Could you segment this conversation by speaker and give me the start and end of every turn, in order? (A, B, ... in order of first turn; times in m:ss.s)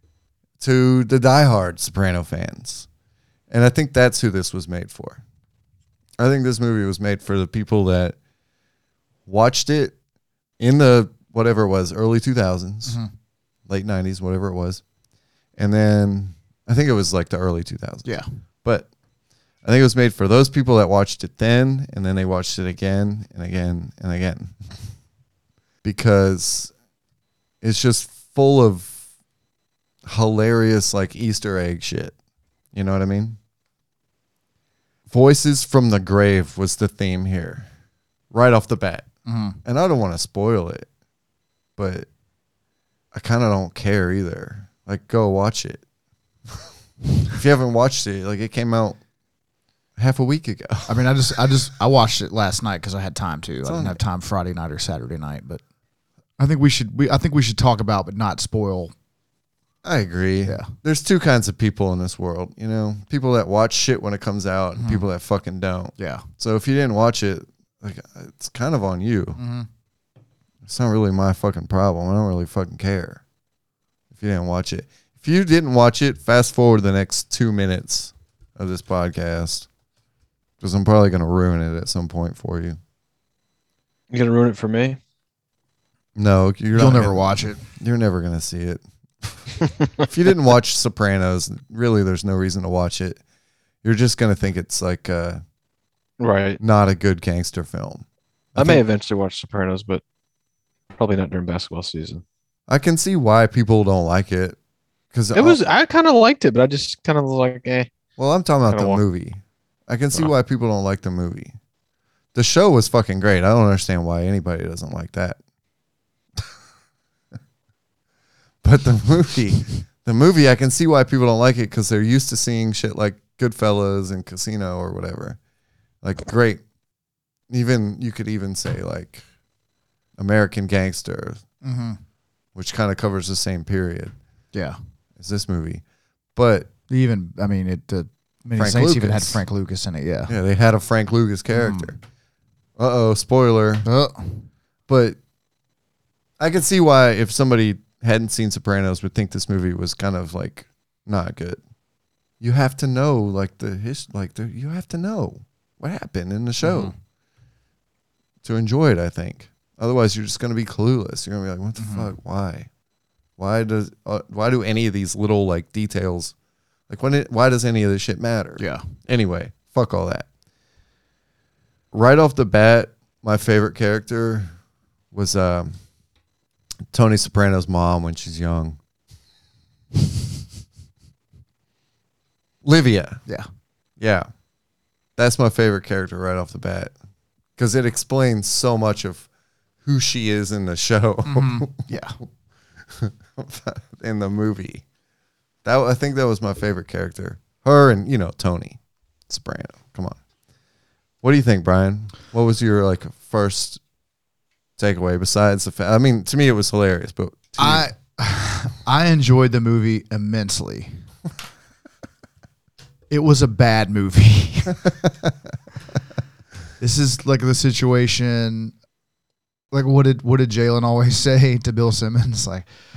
0:00.6-0:02.9 A
0:03.5-0:05.2 A
0:06.2-0:08.2 A
0:09.3-0:10.0 A
0:10.6-0:13.0 A
0:12.9-0:13.1 B
0:13.7-0:14.8 A
0:15.6-0:18.1 A
0:18.6-0:18.9 A
0:19.6-0:24.7 A
0:25.8-0:26.7 A
0:27.6-0:29.0 A
0:30.0-0:32.2 A
0:32.7-0:33.4 A
0:35.1-0:37.7 A
0:38.3-0:39.1 A
0:39.3-0:39.6 B
0:39.6-0:40.9 A
0:41.8-0:42.1 A
0:43.1-0:45.8 A
0:47.3-0:49.0 A
0:50.0-0:51.1 A
0:50.9-0:55.6 B
0:53.6-0:54.0 A
0:56.4-0:58.9 B
0:59.8-1:09.4 A
1:00.4-1:00.7 B
1:04.8-1:05.0 B
1:06.0-1:06.2 B
1:09.4-1:09.7 B
1:10.6-1:13.2 A
1:14.1-1:19.7 A
1:20.6-1:22.8 A
1:24.1-1:25.0 C
1:26.2-1:33.2 A
1:26.7-1:27.6 B
1:33.8-1:35.4 A
1:36.2-1:36.6 C
1:36.6-1:38.8 A
1:38.6-1:40.0 C
1:41.0-1:42.2 C
1:42.7-1:44.6 A
1:45.1-1:45.6 A
1:45.4-1:47.9 C
1:48.2-1:51.6 A
1:48.7-1:49.0 C
1:52.4-1:55.4 A
1:58.6-2:05.4 A
2:06.0-2:06.6 A
2:07.5-2:09.2 A
2:10.2-2:11.4 A
2:11.6-2:12.0 B
2:12.6-2:14.2 A
2:15.2-2:15.8 A
2:16.4-2:16.7 A
2:16.9-2:20.3 B
2:18.6-2:19.4 A
2:20.3-2:22.0 A
2:21.5-2:22.0 B
2:22.8-2:23.9 A
2:23.8-2:24.5 B
2:24.9-2:25.2 A
2:26.4-2:31.6 A
2:32.4-2:36.9 A
2:36.6-2:36.9 B
2:38.4-2:42.7 A
2:41.8-2:42.1 B
2:43.4-2:46.3 A
2:46.9-2:50.3 A
2:48.6-2:48.8 B
2:51.9-2:54.5 A
2:55.1-2:55.8 A
2:56.9-2:58.8 A
3:02.6-3:03.2 A
3:04.0-3:04.3 A
3:05.2-3:06.9 A
3:07.6-3:09.3 A
3:09.8-3:12.2 A
3:11.2-3:12.2 B
3:12.8-3:14.8 A
3:15.6-3:20.2 A
3:21.2-3:23.8 A
3:24.8-3:27.9 A
3:27.6-3:31.0 B
3:33.1-3:34.9 B
3:36.8-3:38.7 B
3:39.7-3:42.7 B